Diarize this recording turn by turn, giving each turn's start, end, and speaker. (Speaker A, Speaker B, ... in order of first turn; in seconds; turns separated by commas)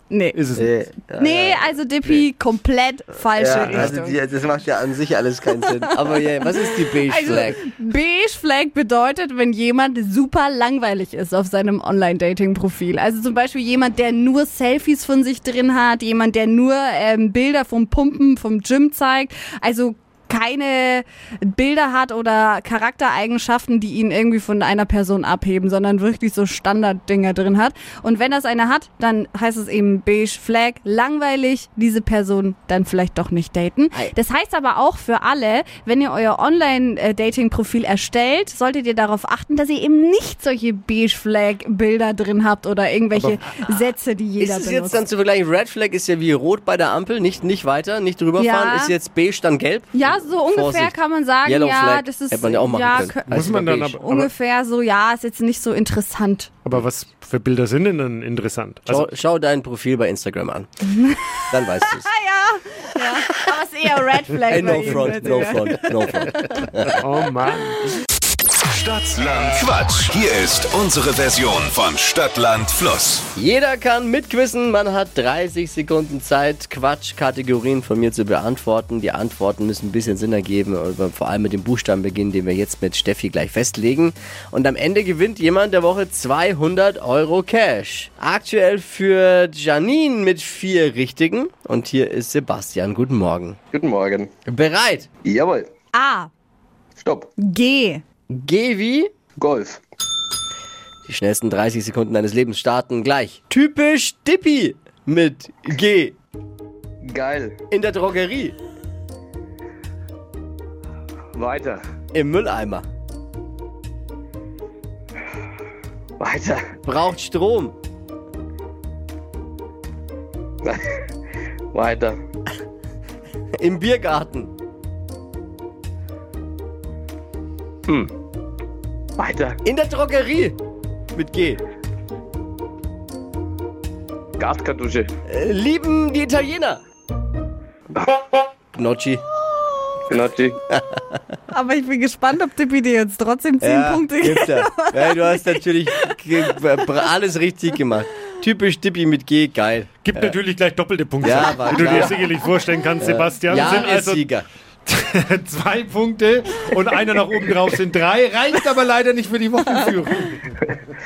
Speaker A: 0.1-0.4, Speaker B: 0.3-0.9, Speaker C: 0.6-2.2, Speaker A: 1.2-4.2, Speaker C: 3.4-7.6, Speaker A: 6.7-45.0, Speaker C: 44.4-54.0, Speaker A: 48.4-48.9, Speaker A: 49.9-56.5, Speaker B: 53.3-54.3, Speaker B: 56.6-59.1, Speaker C: 58.9-60.7, Speaker A: 60.9-61.2, Speaker C: 61.5-62.1, Speaker A: 61.8-66.7, Speaker C: 64.5-67.0, Speaker B: 64.7-65.0, Speaker B: 66.9-67.8, Speaker D: 68.7-73.3, Speaker C: 73.4-93.6, Speaker E: 93.7-94.3, Speaker C: 94.5-95.1, Speaker E: 95.2-95.7, Speaker A: 95.9-96.3, Speaker E: 97.0-97.3, Speaker A: 97.4-98.0, Speaker C: 98.3-99.1, Speaker E: 99.4-99.8, Speaker C: 101.1-106.2, Speaker E: 107.0-107.6, Speaker C: 107.7-108.5, Speaker E: 111.3-111.8, Speaker C: 112.1-112.9, Speaker E: 116.2-116.7, Speaker C: 116.8-117.7, Speaker E: 121.7-122.2, Speaker C: 123.6-124.5, Speaker E: 129.2-129.6, Speaker C: 129.7-130.6, Speaker C: 131.2-131.6, Speaker E: 134.4-135.1, Speaker C: 135.3-136.8, Speaker C: 138.8-139.2, Speaker E: 140.1-140.6, Speaker C: 140.7-141.0, Speaker A: 141.5-146.1, Speaker C: 143.6-150.4, Speaker B: 150.0-154.3, Speaker C: 151.2-152.3, Speaker C: 153.0-154.5, Speaker B: 154.9-160.4